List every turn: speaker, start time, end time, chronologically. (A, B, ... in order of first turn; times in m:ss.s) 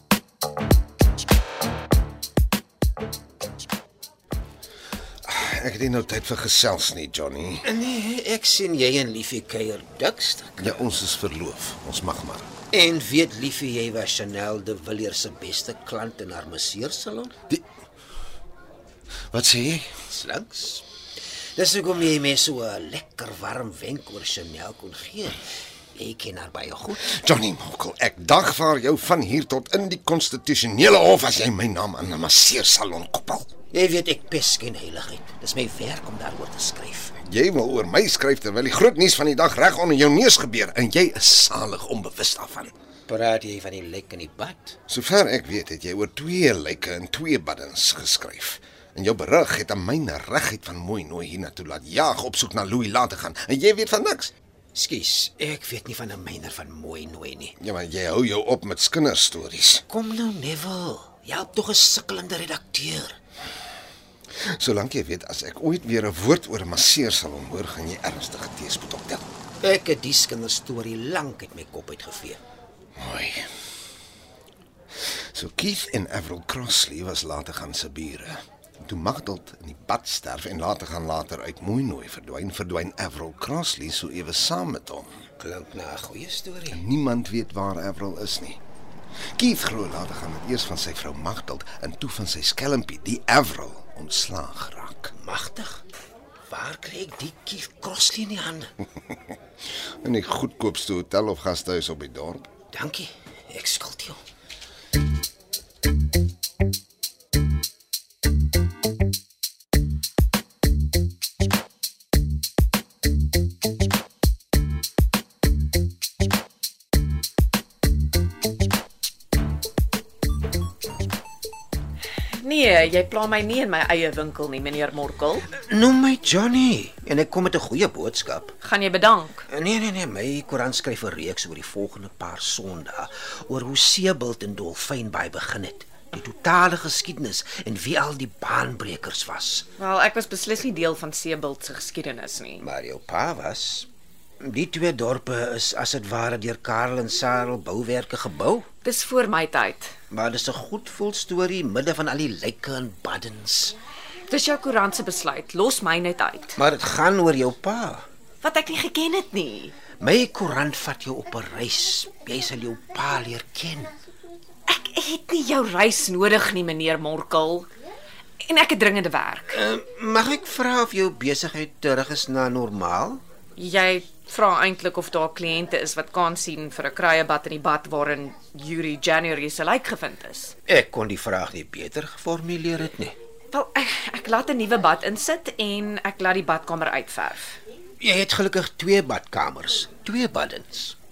0:05.3-0:07.6 A
0:07.6-0:10.8 B
0:10.6-0:12.5 A
0:12.7-0:17.3 B
0:19.3-0:19.9 A
0:20.1-0:20.8 B
0:21.6-0:27.1 B
0:27.0-0:33.5 A
0:33.7-0:37.2 B
0:37.2-0:42.7 A
0:43.1-0:44.8 B
0:44.9-0:54.3 A
0:54.8-0:57.5 B
0:57.6-0:59.8 A
0:59.9-1:03.2 B
1:04.4-1:09.3 A
1:09.6-1:12.4 B
1:13.0-1:13.5 A
1:15.1-1:25.2 A
1:25.4-1:26.8 B
1:26.7-1:28.6 A
1:29.4-1:35.1 A
1:35.2-1:35.8 B
1:36.5-1:38.8 B
1:40.0-1:42.5 A
1:42.7-1:44.2 B
2:02.3-2:05.5 C
2:05.5-2:08.5 B
2:08.6-2:09.4 C
2:09.5-2:19.6 B
2:19.8-2:22.6 C
2:22.6-2:23.9 B
2:24.4-2:28.7 B
2:28.8-2:30.0 C
2:30.1-2:33.8 B
2:34.3-2:36.6 C
2:36.6-2:38.0 B
2:38.4-2:39.7 C
2:40.0-2:43.9 B
2:44.7-2:47.7 C
2:48.4-2:49.6 C
2:49.5-2:53.2 B
2:53.6-3:00.5 C
3:00.7-3:03.2 B
3:03.5-3:07.6 C
3:08.0-3:11.0 B